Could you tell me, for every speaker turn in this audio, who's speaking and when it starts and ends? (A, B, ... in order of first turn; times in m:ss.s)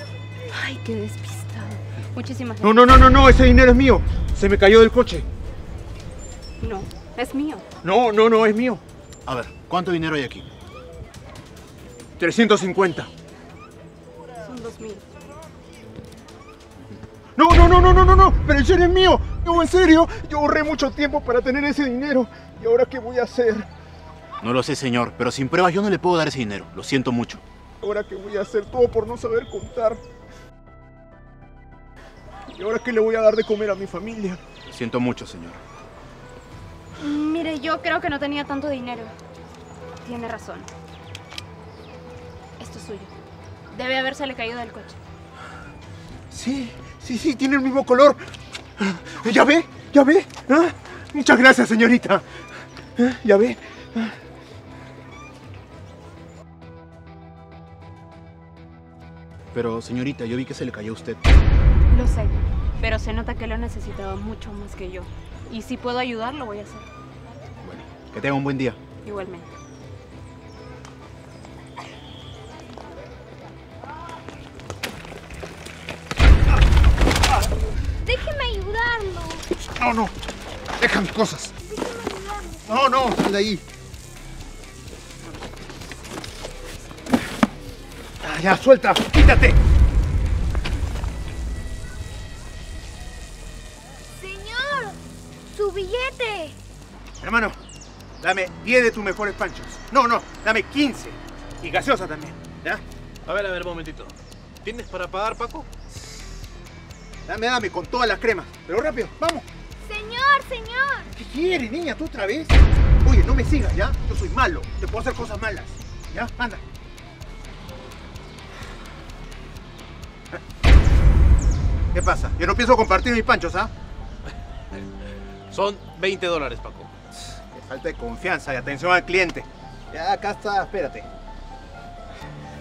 0:00.5-0:02.7 A
0:02.6-0:05.3 B
0:06.6-0:07.6 A
0:07.8-0:08.8 B
0:09.3-0:10.5 C
0:12.2-0:13.1 B
0:14.4-0:15.0 A
0:17.4-0:23.7 B
0:24.4-0:27.4 C
0:27.8-0:30.0 B
0:32.5-0:34.4 B
0:34.7-0:35.6 C
0:37.0-0:39.1 A
0:40.0-0:40.7 A
0:42.6-0:43.1 A
0:43.7-0:45.0 A
0:46.3-0:48.2 B
0:48.8-0:52.3 B
0:53.0-0:54.2 B
0:59.5-1:01.2 C
1:01.9-1:06.9 A
1:07.6-1:08.8 C
1:09.0-1:09.5 A
1:18.0-1:19.5 D
1:19.8-1:20.1 B
1:20.8-1:21.5 B
1:21.6-1:22.9 D
1:22.7-1:23.6 B
1:28.2-1:29.6 B
1:34.2-1:35.0 D
1:35.5-1:36.6 D
1:37.2-1:37.6 B
1:38.2-1:42.8 B
1:43.2-1:45.7 E
1:47.3-1:49.5 B
1:49.8-1:51.1 D
1:51.1-1:56.6 B
2:01.9-2:03.7 B
2:05.5-2:06.9 E
2:07.4-2:11.1 B